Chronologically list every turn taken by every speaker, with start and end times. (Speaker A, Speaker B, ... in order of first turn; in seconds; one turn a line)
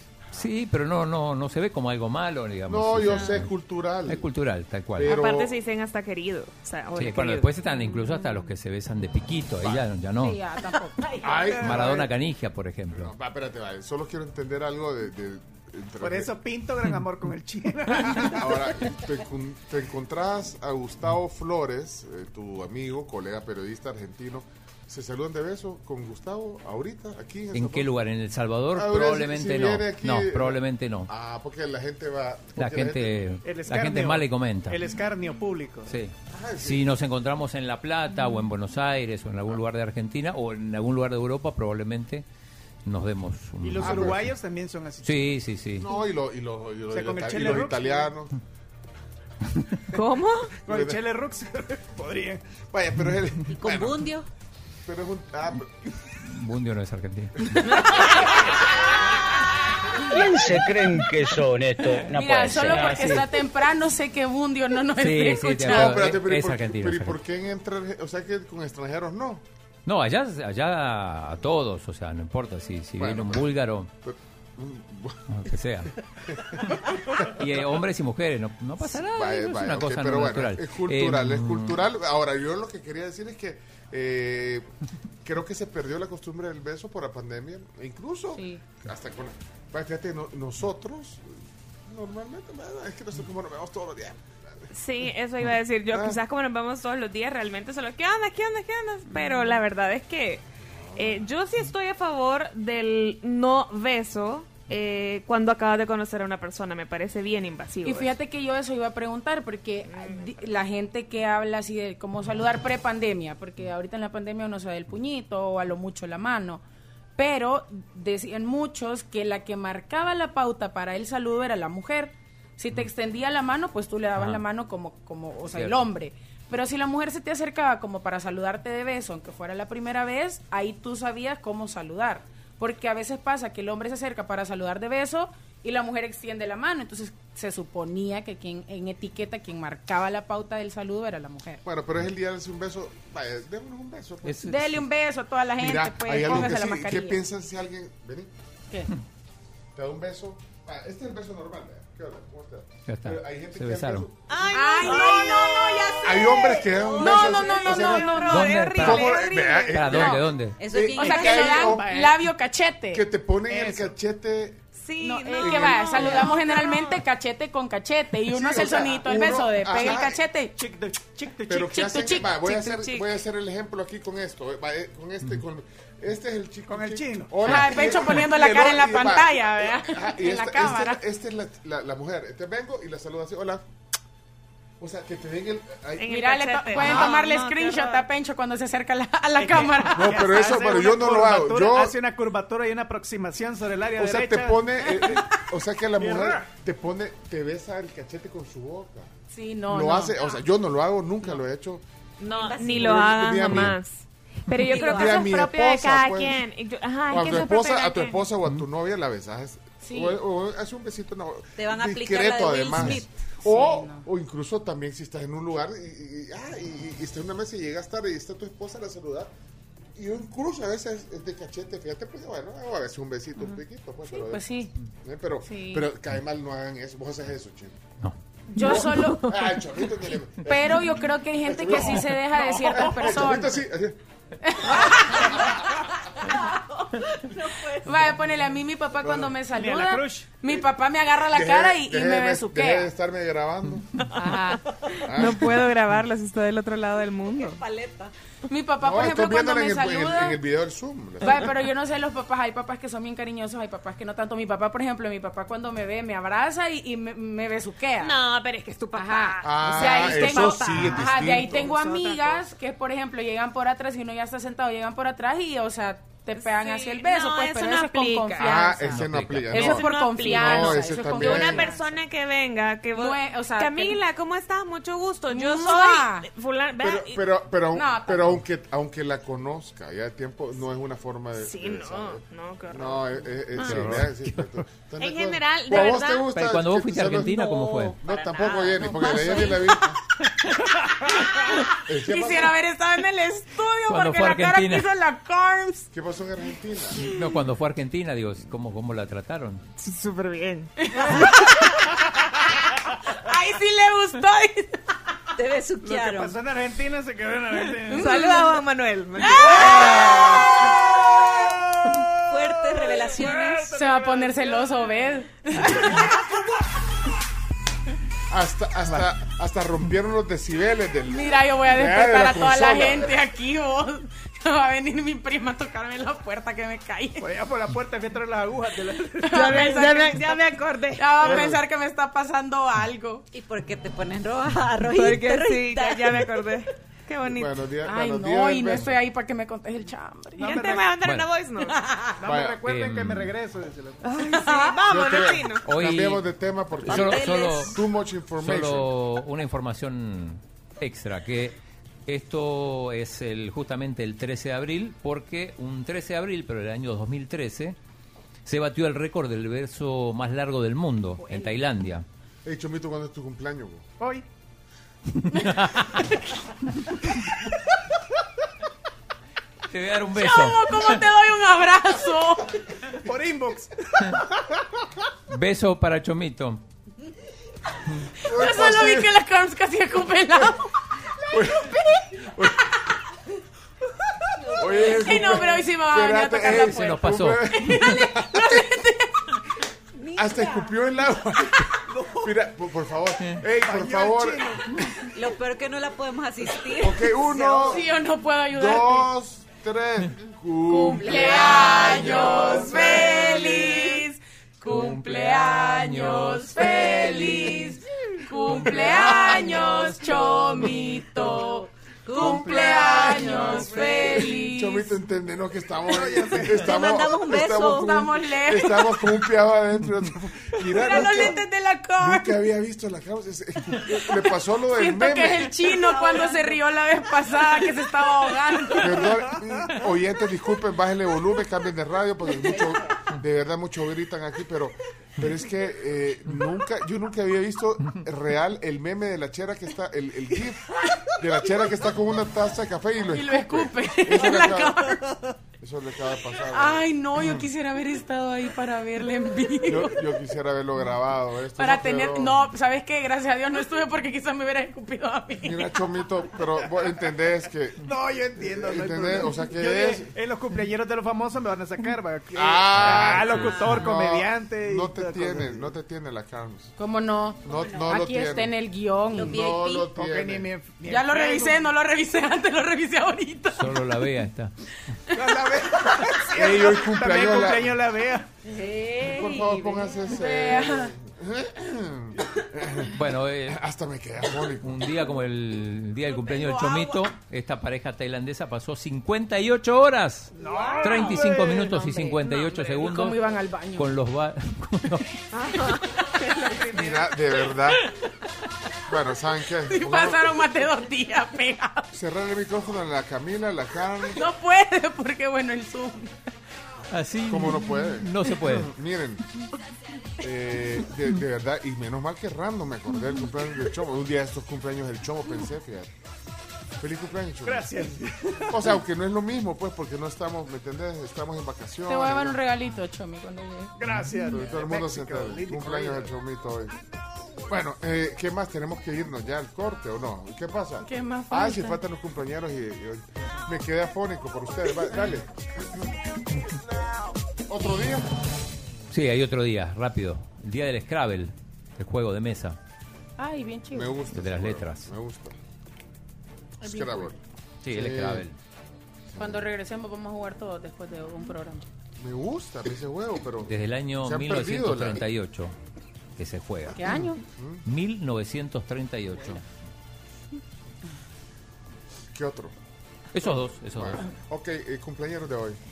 Speaker A: 0.3-3.5
Speaker B: 2.7-4.3
Speaker A: 4.1-5.2
Speaker B: 5.0-5.5
Speaker C: 5.0-7.5
Speaker A: 6.9-10.4
Speaker B: 9.6-9.9
Speaker D: 10.2-11.5
Speaker B: 11.2-12.1
Speaker A: 11.6-13.1
Speaker B: 12.9-16.4
Speaker E: 16.0-18.7
Speaker B: 18.2-27.9
Speaker A: 27.5-31.1
Speaker B: 28.7-33.2
Speaker A: 32.5-34.8
Speaker E: 33.4-36.0
Speaker A: 35.9-42.2
Speaker B: 36.3-36.9
Speaker A: 42.8-44.3
Speaker E: 43.6-45.4
Speaker B: 43.8-44.2
Speaker A: 45.0-45.9
Speaker B: 45.8-48.3
Speaker E: 46.9-48.1
Speaker C: 49.9-50.6
Speaker E: 50.6-52.6
Speaker B: 50.7-51.0
Speaker B: 52.6-54.1
Speaker F: 53.5-54.3
Speaker B: 54.9-55.9
Speaker A: 56.2-57.6
Speaker C: 57.6-58.5
Speaker G: 60.1-63.3
Speaker D: 62.1-66.0
Speaker A: 65.0-67.2
Speaker B: 65.7-69.4
Speaker A: 69.8-73.9
Speaker B: 73.0-73.5
Speaker B: 74.0-75.4
Speaker A: 75.3-75.9
Speaker B: 76.3-77.4
Speaker A: 77.2-81.8
Speaker B: 78.8-84.7
Speaker B: 85.2-94.7
Speaker D: 88.3-88.6
Speaker C: 94.7-100.4
Speaker B: 95.9-96.2
Speaker D: 99.1-99.6
Speaker B: 100.7-101.3
Speaker C: 101.0-108.1
Speaker D: 107.8-116.6
Speaker C: 109.9-110.5
Speaker D: 117.2-141.6
Speaker A: 124.2-124.4
Speaker A: 125.5-125.8
Speaker B: 141.6-144.5
Speaker A: 144.2-144.7
Speaker D: 144.4-147.2
Speaker B: 145.6-148.3
Speaker B: 149.7-154.2
Speaker A: 152.9-154.1
Speaker C: 154.3-156.0
Speaker D: 154.5-160.2
Speaker F: 154.8-156.9
Speaker B: 156.0-162.0
Speaker C: 156.9-159.8
Speaker A: 158.3-159.2
Speaker A: 159.7-160.6
Speaker F: 160.6-161.8
Speaker D: 160.9-163.0
Speaker E: 161.6-162.2
Speaker B: 162.9-164.6
Speaker E: 163.5-163.9
Speaker C: 164.7-167.0
Speaker D: 165.0-170.6
Speaker B: 165.4-166.3
Speaker B: 168.3-170.2
Speaker E: 170.6-171.7
Speaker B: 171.5-183.6
Speaker D: 171.5-172.3
Speaker C: 172.3-173.1
Speaker E: 176.7-177.4
Speaker D: 177.4-181.0
Speaker B: 184.8-186.2
Speaker C: 186.0-188.0
Speaker D: 186.1-190.8
Speaker B: 186.7-187.1
Speaker E: 189.4-195.1
Speaker B: 189.9-191.9
Speaker B: 194.0-199.1
Speaker E: 196.0-196.4
Speaker D: 199.3-200.2
Speaker B: 199.7-201.8
Speaker C: 202.2-208.2
Speaker F: 202.2-203.3
Speaker B: 202.7-203.8
Speaker F: 204.6-205.3
Speaker B: 204.7-206.4
Speaker B: 207.1-219.3
Speaker D: 209.8-210.2
Speaker F: 211.6-213.1
Speaker D: 213.4-214.1
Speaker B: 219.9-224.5
Speaker D: 224.1-224.7
Speaker B: 225.0-227.8
Speaker D: 225.4-225.8
Speaker D: 228.5-229.6
Speaker B: 228.6-230.8
Speaker D: 230.4-233.6
Speaker B: 231.4-234.0
Speaker E: 232.4-233.2
Speaker D: 234.4-235.5
Speaker F: 237.3-238.0
Speaker D: 237.8-242.9
Speaker B: 239.0-239.4
Speaker E: 239.5-240.3
Speaker B: 241.3-243.9
Speaker D: 244.1-244.6
Speaker C: 244.3-247.6
Speaker B: 245.0-245.6
Speaker F: 247.3-248.1
Speaker D: 248.5-250.4
Speaker B: 248.8-251.6
Speaker D: 251.2-258.2
Speaker C: 258.0-262.4
Speaker D: 258.9-269.0
Speaker B: 259.4-261.7
Speaker C: 266.4-268.7
Speaker B: 268.4-271.7
Speaker A: 268.9-269.6
Speaker C: 269.5-277.2
Speaker D: 269.5-271.8
Speaker D: 272.9-274.0
Speaker D: 275.3-276.3
Speaker B: 276.8-290.0
Speaker D: 277.7-278.4
Speaker C: 281.4-283.9
Speaker A: 283.6-284.4
Speaker C: 285.0-286.3
Speaker A: 286.3-288.0
Speaker F: 287.4-289.8
Speaker B: 291.8-292.5
Speaker D: 291.9-295.9
Speaker A: 293.9-294.9
Speaker B: 295.9-297.0
Speaker A: 297.0-299.6
Speaker C: 299.8-301.7
Speaker D: 300.9-301.6
Speaker D: 303.1-304.8
Speaker F: 305.4-306.4
Speaker E: 305.8-308.4
Speaker C: 307.9-310.1
Speaker D: 307.9-308.5
Speaker D: 309.2-310.3
Speaker E: 309.4-310.3
Speaker F: 312.3-313.7
Speaker E: 312.8-314.9
Speaker D: 313.7-316.1
Speaker B: 318.3-323.1
Speaker D: 321.1-327.3
Speaker E: 327.2-329.8
Speaker D: 329.2-330.2
Speaker C: 329.3-331.4
Speaker D: 330.9-333.2
Speaker B: 331.2-331.6
Speaker F: 333.3-336.4
Speaker C: 334.9-337.5
Speaker B: 337.2-339.0
Speaker D: 337.8-340.6
Speaker E: 340.4-340.9
Speaker C: 340.4-341.8
Speaker A: 341.0-341.3
Speaker E: 342.2-344.0
Speaker B: 342.2-342.6
Speaker A: 342.6-343.3
Speaker C: 344.0-345.6
Speaker D: 344.2-344.8
Speaker B: 344.9-348.9
Speaker A: 345.6-346.3
Speaker A: 346.8-347.8
Speaker F: 346.9-347.8
Speaker A: 348.4-351.6
Speaker A: 352.1-357.8
Speaker A: 358.4-362.1
Speaker D: 361.2-361.5
Speaker B: 362.4-363.8
Speaker E: 364.0-364.2
Speaker A: 365.2-366.0
Speaker A: 369.7-371.0
Speaker D: 370.1-372.5
Speaker E: 372.9-374.6
Speaker A: 375.3-376.6
Speaker B: 378.2-379.1
Speaker D: 378.2-380.7
Speaker B: 381.2-382.8
Speaker F: 384.4-385.5
Speaker B: 384.5-388.6
Speaker D: 384.8-389.4
Speaker A: 386.5-387.9
Speaker F: 390.0-390.7
Speaker B: 390.1-394.7
Speaker E: 391.9-392.3
Speaker E: 393.6-394.8
Speaker F: 395.1-397.9
Speaker B: 396.8-397.9
Speaker D: 397.6-399.1
Speaker B: 398.5-402.8
Speaker D: 400.7-414.9
Speaker F: 401.0-403.1
Speaker A: 404.6-406.5
Speaker F: 412.1-414.2
Speaker B: 413.9-421.4
Speaker E: 415.9-416.7
Speaker F: 416.5-418.0
Speaker D: 417.5-419.0
Speaker D: 420.6-422.4
Speaker B: 422.0-425.7
Speaker D: 424.7-429.1
Speaker B: 428.8-444.9
Speaker D: 443.1-445.0
Speaker B: 445.6-447.4
Speaker D: 446.5-450.0
Speaker B: 449.6-452.4
Speaker D: 451.6-455.7
Speaker B: 455.4-457.8
Speaker E: 457.8-465.7
Speaker B: 458.4-460.1
Speaker B: 462.3-466.7
Speaker A: 462.7-463.8
Speaker D: 466.8-469.4
Speaker B: 467.4-468.5
Speaker F: 467.5-467.9
Speaker F: 469.1-469.9
Speaker B: 469.1-470.5
Speaker E: 469.9-471.7
Speaker D: 470.8-473.8
Speaker A: 473.5-474.5
Speaker E: 475.1-478.3
Speaker B: 476.3-477.8
Speaker F: 478.4-479.9
Speaker B: 479.0-482.9
Speaker D: 480.1-480.9
Speaker A: 482.9-483.6
Speaker B: 483.4-485.0
Speaker A: 484.6-495.2
Speaker E: 490.3-491.8
Speaker D: 490.7-493.9
Speaker C: 495.3-496.9
Speaker B: 496.7-497.8
Speaker B: 498.9-500.4
Speaker D: 499.7-501.9
Speaker B: 501.9-504.2
Speaker D: 504.1-506.1
Speaker A: 506.9-508.7
Speaker B: 507.3-509.2
Speaker B: 510.2-515.9
Speaker B: 516.8-517.9
Speaker E: 517.4-518.6
Speaker B: 518.5-522.4
Speaker D: 521.9-523.7
Speaker E: 523.8-526.1
Speaker B: 524.3-526.8
Speaker B: 527.4-535.9
Speaker D: 530.8-531.8
Speaker B: 537.5-538.1
Speaker A: 538.9-542.6
Speaker D: 543.2-544.0
Speaker B: 543.7-545.4
Speaker A: 544.1-544.9
Speaker B: 546.6-547.2
Speaker D: 546.6-547.1
Speaker A: 547.6-548.4
Speaker B: 547.7-548.2
Speaker B: 549.1-549.5
Speaker D: 549.2-551.6
Speaker B: 552.0-555.0
Speaker A: 553.5-555.5
Speaker A: 556.2-557.0
Speaker D: 556.7-557.2
Speaker B: 557.0-557.6
Speaker A: 557.6-559.4
Speaker B: 562.1-562.5
Speaker A: 563.1-564.1
Speaker B: 563.7-565.6